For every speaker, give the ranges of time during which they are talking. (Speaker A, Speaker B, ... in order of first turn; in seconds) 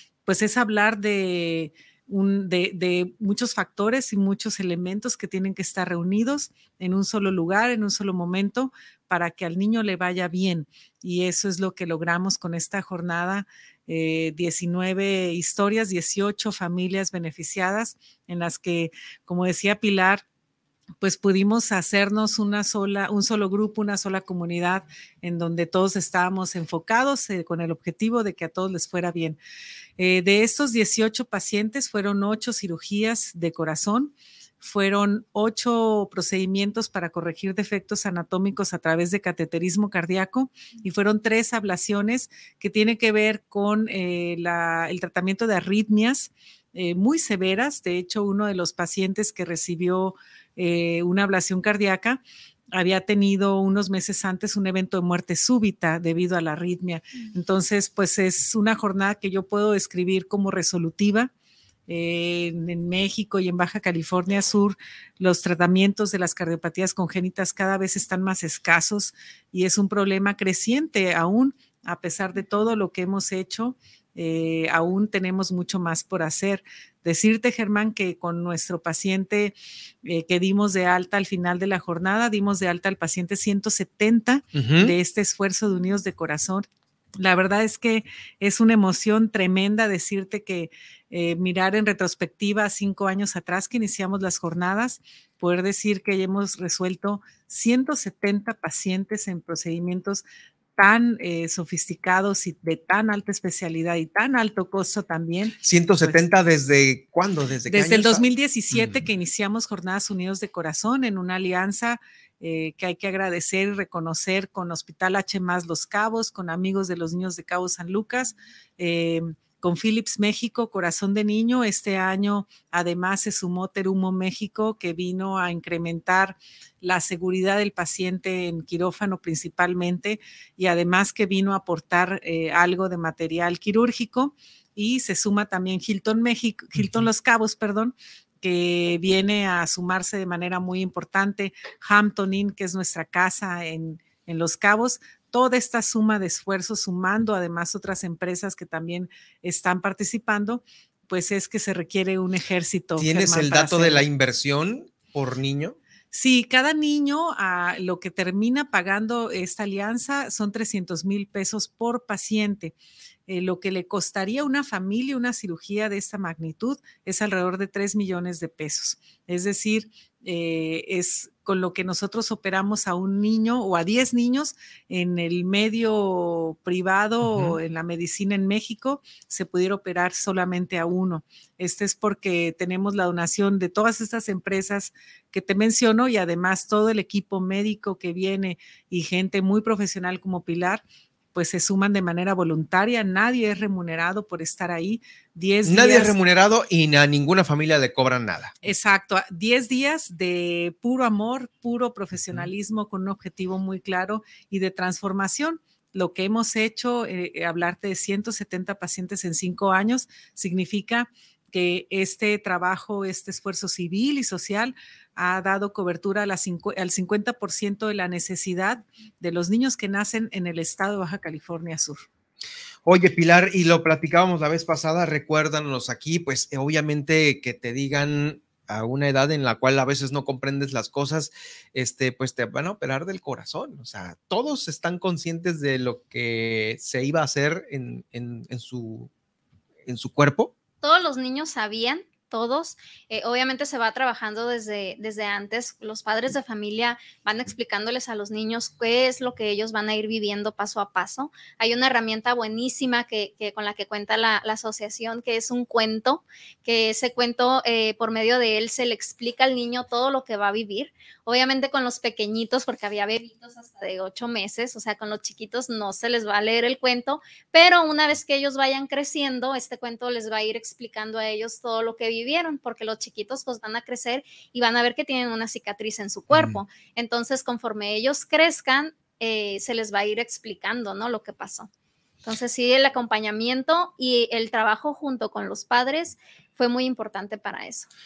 Speaker A: 0.3-20.2, 21.0-29.4, 30.0-52.2, 52.7-61.3, 61.9-86.7, 87.2-100.2, 100.8-106.2, 107.7-154.1, 156.1-162.8, 163.3-190.8, 191.3-196.2, 198.6-222.1
Speaker B: 84.5-84.9, 105.6-109.0, 136.8-137.0, 153.0-155.8, 177.2-177.6, 195.7-198.5, 222.8-239.1, 239.9-240.5, 276.3-276.6
Speaker C: 240.8-281.7, 282.2-287.9